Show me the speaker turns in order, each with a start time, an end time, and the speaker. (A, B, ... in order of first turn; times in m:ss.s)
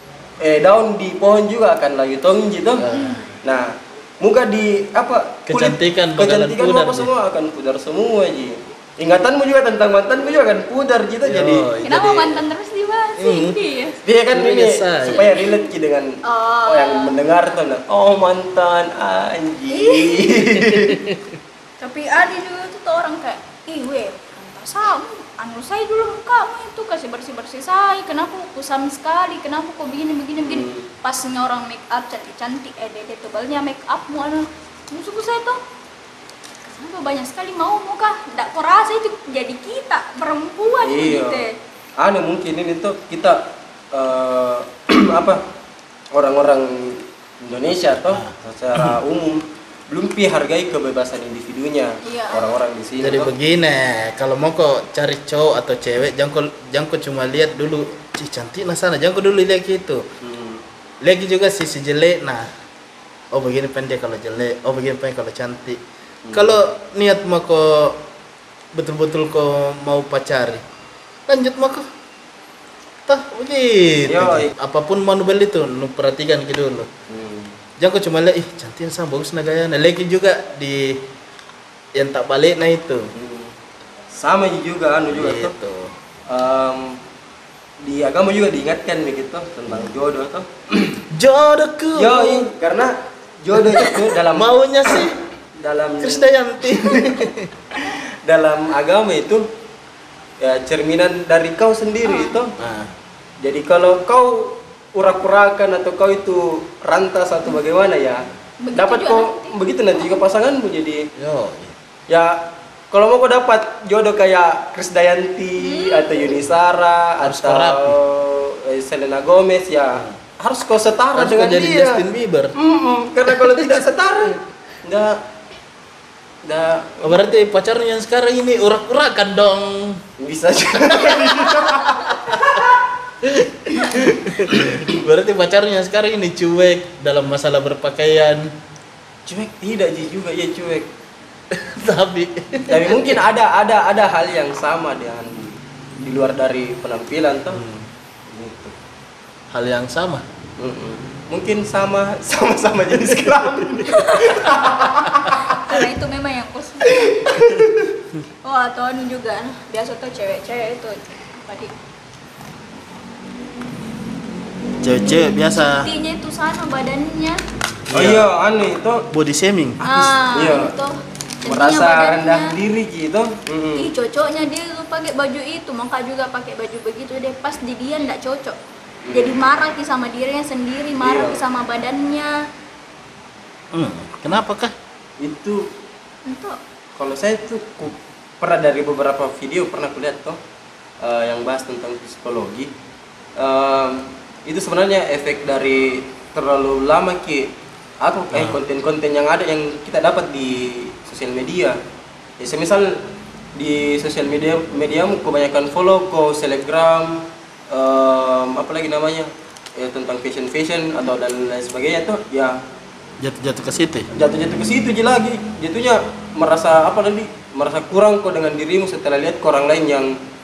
0:00.4-0:02.9 A
0:02.8-0:03.3 B
0:02.9-0:03.4 C
0:03.4-0:11.7 A
0:05.5-0:07.1 B
0:11.2-0:12.4 B
0:11.8-0:14.0 C
0:13.2-0:13.6 B
0:14.0-0:21.0 A
0:14.3-0:15.3 B
0:15.2-0:15.7 C
0:16.2-0:17.2 C
0:19.7-0:20.4 C
0:20.7-0:21.4 B
0:21.8-0:35.6 C
0:30.4-0:30.9 A
0:36.7-0:41.5 C
0:40.8-0:41.5 A
0:42.0-0:45.4 A
0:46.1-0:53.3 A
0:48.0-0:49.0 B
0:52.0-0:52.6 C
0:53.0-1:00.1 B
1:00.2-1:00.6 A
1:01.0-1:02.5 B
1:03.3-1:05.8 B
1:06.3-1:06.6 A
1:06.3-1:08.0 B
1:08.7-1:10.6 B
1:11.3-1:11.8 B
1:13.1-1:16.9 B
1:14.1-1:14.5 A
1:17.1-1:17.6 A
1:17.8-1:21.0 B
1:22.0-1:23.1 B
1:23.1-1:23.6 A
1:24.1-1:25.5 A
1:25.1-1:25.9 B
1:26.3-1:27.0 A
1:27.8-1:31.0 A
1:31.1-1:32.5 B
1:31.9-1:35.1 A
1:33.7-1:35.2 B
1:35.6-1:36.3 A
1:36.0-1:37.5 B
1:37.9-1:39.5 A
1:40.4-1:42.5 A
1:42.0-1:42.3 C
1:42.6-1:42.9 B
1:43.4-1:48.2 A
1:48.6-1:50.2 C
1:48.8-1:51.1 A
1:51.2-1:51.7 B
1:52.1-2:05.2 A
1:55.6-1:56.3 C
1:57.2-1:58.0 B
2:01.2-2:02.6 B
2:03.5-2:03.8 B
2:06.4-2:07.2 A
2:07.0-2:10.0 B
2:10.2-2:12.7 A
2:11.1-2:11.7 B
2:13.2-2:18.5 B
2:19.3-2:20.9 A
2:21.5-2:23.2 B
2:22.7-2:27.6 A
2:27.5-2:27.9 B
2:28.3-2:28.8 A
2:29.5-2:30.2 B
2:30.6-2:35.7 A
2:33.9-2:37.2 C
2:36.9-2:37.9 A
2:38.4-2:41.7 C
2:44.8-2:45.9 B
2:45.1-2:47.4 C
2:47.9-2:48.3 B
2:47.9-2:49.1 A
2:49.1-2:50.1 B
2:49.8-2:52.6 C
2:50.3-2:50.7 A
2:51.5-2:53.9 A
2:53.8-2:58.6 C
2:59.0-2:59.4 A
2:59.1-3:02.4 C
3:01.0-3:01.4 A
3:03.7-3:04.7 B
3:05.2-3:05.7 A
3:06.3-3:06.6 C
3:07.0-3:10.4 A
3:11.0-3:12.7 A
3:13.4-3:17.5 A
3:18.0-3:21.8 A
3:18.3-3:18.6 B
3:22.4-3:23.0 A
3:23.6-3:32.6 A
3:33.2-3:34.1 B
3:34.1-3:40.2 A